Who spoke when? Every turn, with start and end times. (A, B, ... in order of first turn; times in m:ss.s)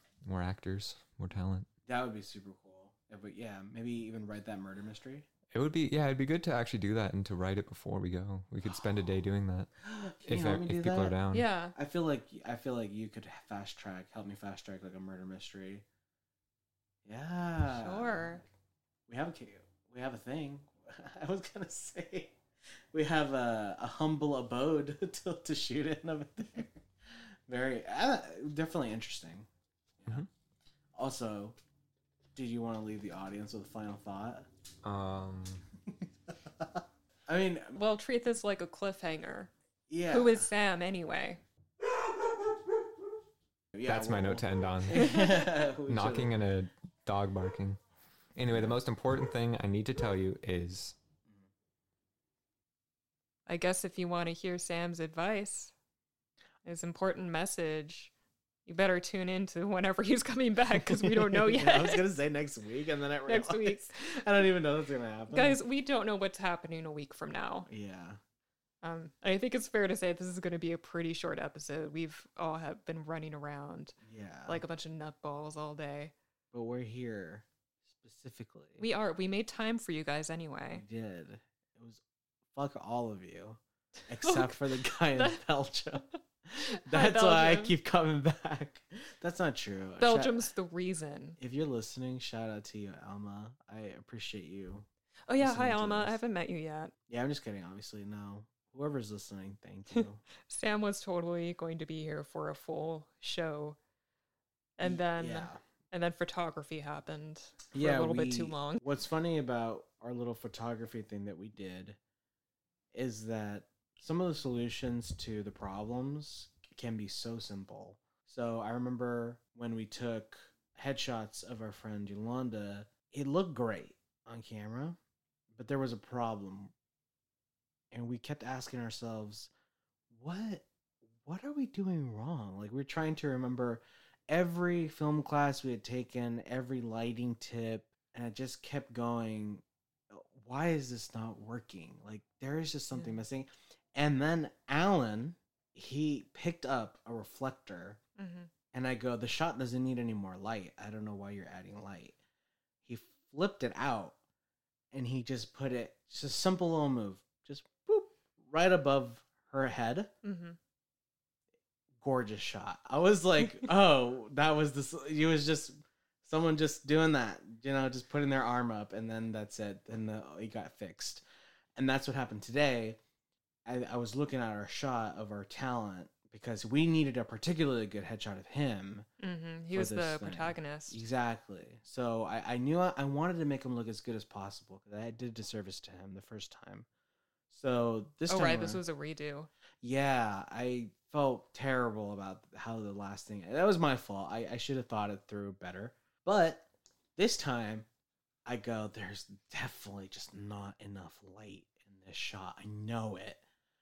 0:00.2-0:01.7 A
0:01.9-0:05.3 B
0:05.5-0:09.7 A
0:09.8-0:11.2 B
0:10.2-0:11.5 A
0:11.3-0:11.8 C
0:11.8-0:15.8 B
0:17.0-0:18.4 B
0:17.7-0:18.4 C
0:19.1-0:22.4 B
0:22.9-0:26.8 B
0:27.5-0:29.5 B
0:30.0-0:30.3 B
0:31.0-0:31.6 B
0:32.4-0:34.5 B
0:34.8-0:35.6 A
0:36.6-0:37.8 B
0:37.8-0:39.5 C
0:39.9-0:40.5 B
0:40.1-0:41.4 C
0:43.7-0:46.3 B
0:43.8-0:47.8 A
0:45.0-0:45.3 C
0:48.4-0:51.0 A
0:53.5-0:55.7 C
0:56.6-0:58.1 C
0:58.7-1:02.1 C
1:00.9-1:05.6 B
1:03.3-1:04.4 C
1:05.3-1:07.7 C
1:07.7-1:08.2 B
1:08.8-1:16.1 C
1:14.1-1:14.6 B
1:16.5-1:18.9 B
1:18.8-1:20.8 C
1:20.7-1:22.0 B
1:22.5-1:30.4 B
1:24.2-1:25.4 C
1:26.0-1:27.7 C
1:30.0-1:31.4 C
1:31.4-1:34.9 B
1:35.3-1:36.9 C
1:35.4-1:36.2 B
1:37.1-1:40.2 B
1:40.0-1:43.8 C
1:44.8-1:48.8 C
1:44.8-1:45.6 B
1:47.7-1:52.0 B
1:52.9-2:05.0 B
2:05.5-2:06.7 B
2:07.9-2:09.5 B
2:10.1-2:10.7 B
2:11.2-2:28.0 B
2:28.2-2:28.5 C
2:28.7-2:32.2 B
2:32.9-2:34.2 B
2:34.9-2:40.1 B
2:40.2-2:40.6 C
2:42.0-2:51.2 B
2:51.8-2:53.0 B
2:53.7-2:59.1 B
2:59.2-3:01.0 C
2:59.7-3:06.9 B
3:07.5-3:08.8 B
3:08.3-3:09.5 C
3:09.8-3:17.9 B
3:18.5-3:23.4 B